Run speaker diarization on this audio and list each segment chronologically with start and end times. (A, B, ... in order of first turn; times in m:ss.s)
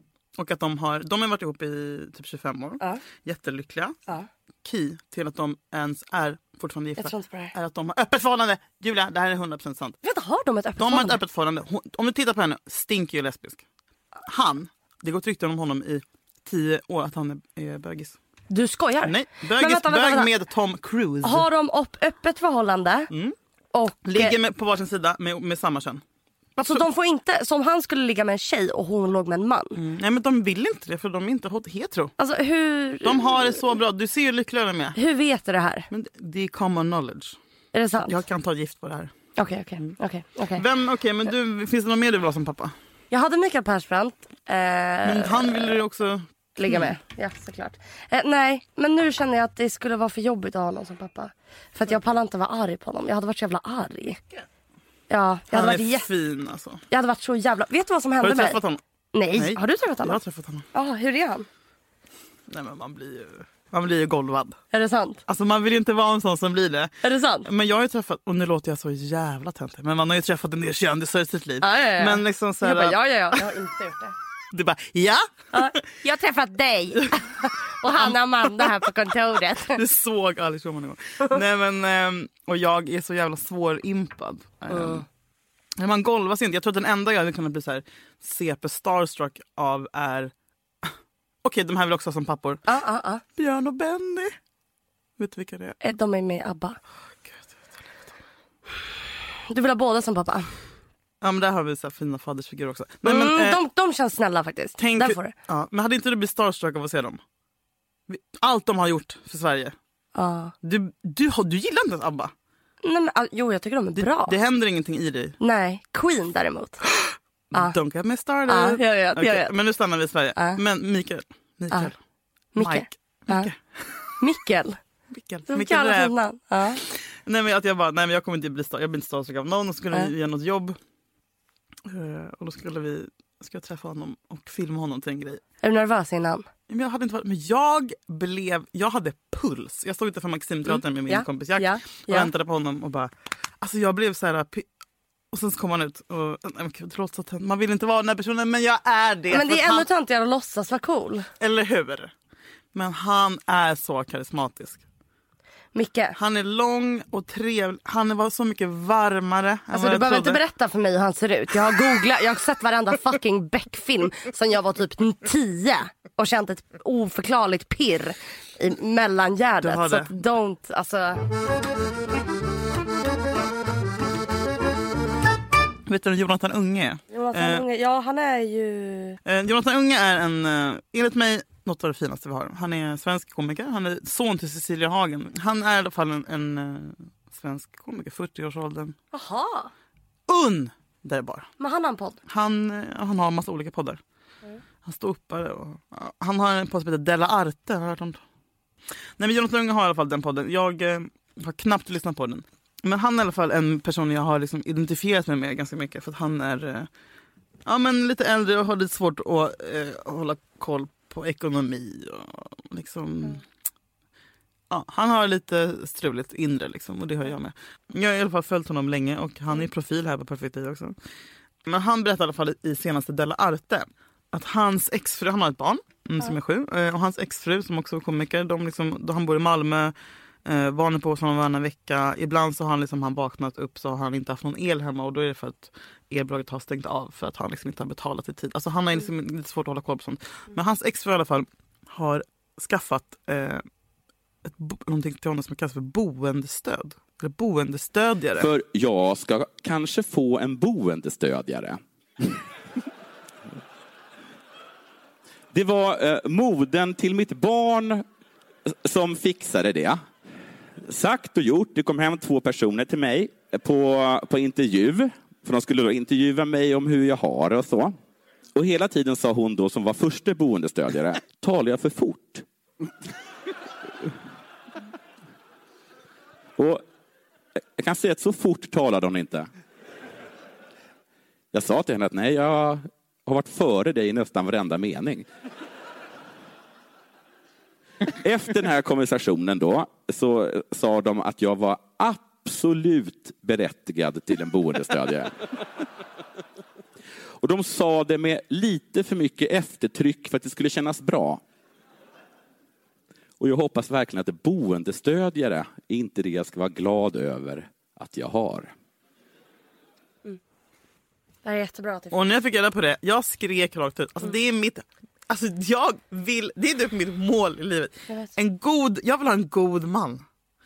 0:00.4-0:04.0 A
0:04.6-0:10.0 A
0:07.0-0:07.5 B
0:10.0-0:11.2 B
0:10.8-0:13.6 A
0:14.3-0:18.2 A
0:18.5-0:20.3 B
0:19.0-0:21.5 A
0:21.2-0:23.1 B
0:23.1-0:23.4 A
0:23.7-0:24.4 B
0:24.0-0:26.0 A
0:26.6-0:26.9 A
0:26.6-0:29.8 B
0:29.8-0:32.1 A
0:32.2-0:33.5 B
0:33.0-0:35.0 A
0:35.0-0:35.9 B
0:35.9-0:37.4 A
0:37.7-0:38.2 B
0:38.1-0:39.1 A
0:39.4-0:40.6 B
0:40.6-0:42.7 A
0:43.1-0:45.8 B
0:45.0-0:46.9 A
0:46.6-0:54.2 B
0:55.1-0:56.1 B
0:55.5-0:56.8 A
0:56.9-0:58.6 B
0:58.2-0:58.8 A
0:59.1-1:00.2 B
0:59.3-1:00.6 A
1:00.7-1:01.5 B
1:02.5-1:04.6 A
1:04.7-1:05.2 B
1:05.3-1:13.4 A
1:07.0-1:07.5 B
1:11.6-1:14.2 B
1:14.5-1:15.7 A
1:15.5-1:19.8 B
1:18.0-1:18.9 A
1:19.7-1:25.0 A
1:24.7-1:25.0 B
1:25.8-1:30.3 A
1:31.4-1:32.6 A
1:32.7-1:33.2 B
1:33.4-1:34.4 A
1:35.2-1:35.8 A
1:35.8-1:36.8 B
1:37.3-1:37.5 A
1:39.5-1:40.5 B
1:41.2-1:43.6 A
1:43.0-1:45.3 B
1:44.8-1:47.2 A
1:48.1-1:49.8 A
1:50.2-1:50.5 B
1:50.6-1:52.3 A
1:52.8-1:54.4 B
1:54.0-1:55.4 A
1:55.4-1:56.8 B
1:57.5-2:02.0 A
1:58.5-1:59.5 B
2:02.6-2:03.5 B
2:02.6-2:03.8 A
2:04.2-2:04.8 B
2:05.1-2:06.1 A
2:05.5-2:06.8 B
2:07.0-2:10.8 A
2:11.9-2:15.4 A
2:15.6-2:16.5 B
2:16.7-2:24.7 A
2:21.1-2:22.3 B
2:25.3-2:29.9 A
2:29.3-2:31.3 B
2:31.4-2:32.1 A
2:32.7-2:34.8 A
2:35.7-2:36.2 B
2:36.2-2:40.4 A
2:39.7-2:51.2 B
2:49.6-2:50.2 A
2:55.9-2:57.6 A
2:57.1-2:59.2 B
2:59.2-3:09.0 A
3:09.1-3:09.7 B
3:10.3-3:11.5 A
3:11.6-3:12.2 B
3:12.3-3:14.0 A
3:14.8-3:18.2 A
3:19.2-3:26.9 A
3:27.7-3:33.4 A
3:34.7-3:41.0 A
3:41.7-3:49.9 A
3:50.4-4:03.6 A
4:04.4-4:08.5 A
4:08.4-4:12.4 C
4:15.5-4:18.0 C
4:18.7-4:20.0 C
4:20.8-4:28.0 C
4:28.6-4:32.4 C
4:36.6-4:36.8 C
4:37.8-4:39.5 C
4:41.5-4:45.2 C
4:48.1-4:55.5 C
4:57.4-5:01.4 C
5:03.4-5:08.7 C
5:11.4-5:12.2 B
5:12.1-5:20.2 A
5:18.1-5:18.3 B